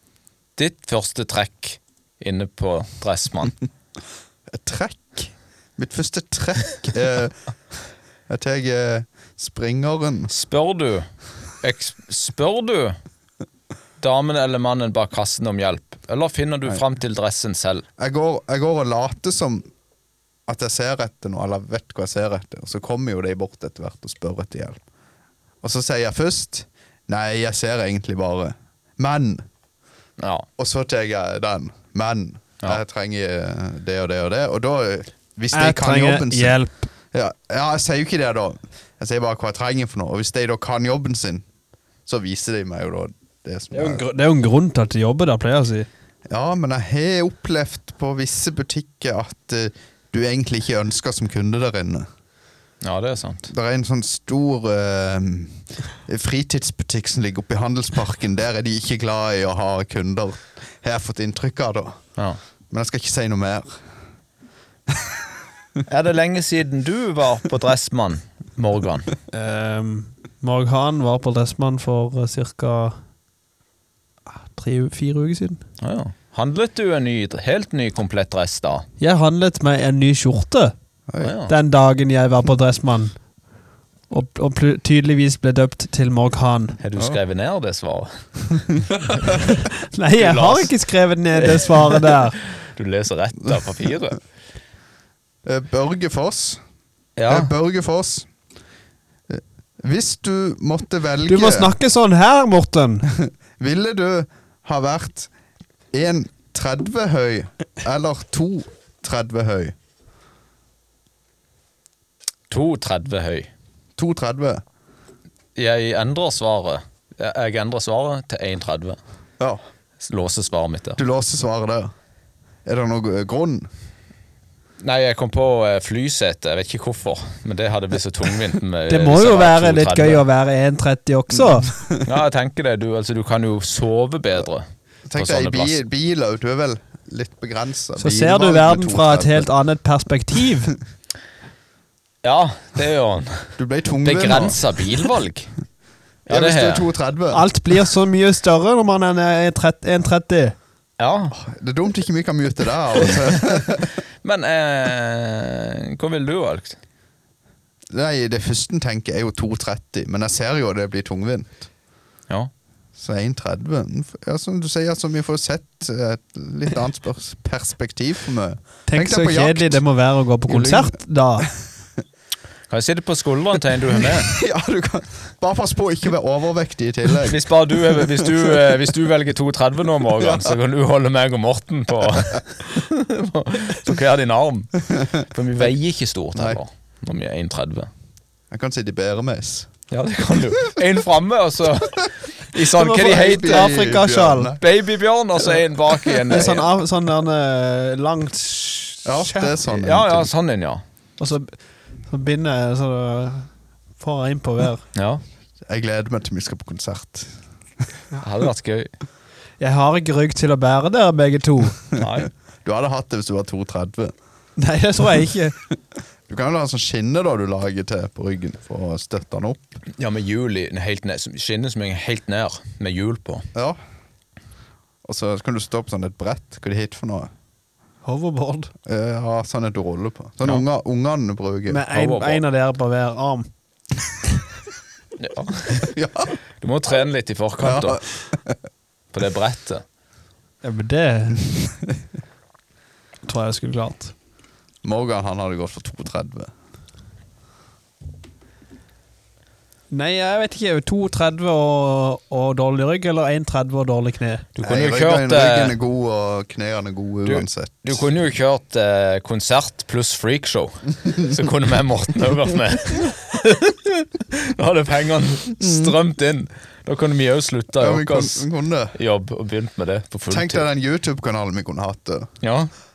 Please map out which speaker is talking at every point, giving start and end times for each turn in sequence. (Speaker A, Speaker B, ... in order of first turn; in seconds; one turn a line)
Speaker A: 0.6-3.5
Speaker B: 4.5-7.4
Speaker B: 8.3-10.3
Speaker A: 10.3-11.1
Speaker A: 11.6-13.0
Speaker A: 14.0-17.8
Speaker B: 18.0-19.6
Speaker B: 20.5-24.8
Speaker B: 25.6-29.4
Speaker A: 30.2-30.4
Speaker B: 30.6-36.5
Speaker C: 35.5-36.9
Speaker B: 37.1-41.4
Speaker B: 42.0-44.0
Speaker C: 43.7-45.9
Speaker B: 46.3-52.0
Speaker A: 52.8-53.5
Speaker B: 53.5-62.0
Speaker B: 62.7-63.8
Speaker A: 65.9-69.1
Speaker C: 69.3-73.0
Speaker C: 74.3-75.6
Speaker A: 75.8-78.8
Speaker C: 79.0-80.7
Speaker B: 81.1-81.3
Speaker A: 81.2-81.5
Speaker C: 81.5-83.1
Speaker C: 84.1-86.8
Speaker A: 86.8-88.1
Speaker B: 88.7-89.4
Speaker C: 89.9-92.4
Speaker A: 90.2-90.7
Speaker A: 91.4-94.2
Speaker B: 95.4-96.6
Speaker A: 97.2-97.5
Speaker B: 97.3-98.3
Speaker B: 99.3-101.8
Speaker C: 101.2-103.1
Speaker B: 103.1-105.3
Speaker B: 105.9-109.7
Speaker A: 112.5-113.5
Speaker B: 114.0-114.6
Speaker A: 115.5-119.0
Speaker A: 120.0-121.0
Speaker B: 121.0-121.9
Speaker B: 122.6-123.7
Speaker A: 124.8-130.2
Speaker C: 128.9-131.7
Speaker B: 131.3-132.1
Speaker A: 132.0-135.8
Speaker B: 135.1-139.5
Speaker C: 138.0-140.7
Speaker A: 142.2-145.5
Speaker B: 143.6-144.6
Speaker A: 146.3-146.9
Speaker B: 146.3-147.4
Speaker C: 147.3-150.6
Speaker A: 151.0-151.3
Speaker B: 151.3-153.9
Speaker A: 153.1-153.6
Speaker A: 154.2-156.8
Speaker B: 157.9-161.7
Speaker B: 162.9-169.8
Speaker C: 168.9-171.5
Speaker B: 170.4-170.9
Speaker A: 172.7-174.4
Speaker B: 173.9-178.8
Speaker A: 177.2-187.9
Speaker B: 180.2-180.5
Speaker B: 186.3-186.6
Speaker B: 188.5-189.7
Speaker A: 189.9-193.8
Speaker C: 192.7-194.5
Speaker B: 192.9-194.6
Speaker A: 194.6-196.7
Speaker C: 196.3-199.6
Speaker B: 199.0-200.3
Speaker A: 199.7-200.8
Speaker C: 201.2-201.6
Speaker C: 202.1-204.8
Speaker A: 204.9-205.2
Speaker B: 205.7-207.4
Speaker A: 208.2-208.9
Speaker C: 209.6-211.8
Speaker A: 212.0-212.3
Speaker B: 212.6-214.1
Speaker C: 214.6-215.6
Speaker B: 216.3-219.6
Speaker A: 220.0-223.5
Speaker B: 225.0-227.3
Speaker C: 228.0-228.7
Speaker B: 228.8-231.8
Speaker C: 231.7-233.5
Speaker A: 231.9-232.4
Speaker A: 235.2-235.9
Speaker B: 235.8-236.3
Speaker A: 236.6-238.0
Speaker B: 237.6-238.6
Speaker A: 239.1-239.8
Speaker C: 240.6-241.4
Speaker C: 243.2-244.1
Speaker B: 244.8-246.5
Speaker C: 249.9-254.4
Speaker A: 254.6-255.7
Speaker B: 254.6-258.0
Speaker A: 257.2-270.6
Speaker B: 267.8-268.9
Speaker B: 270.3-272.3
Speaker A: 272.4-272.7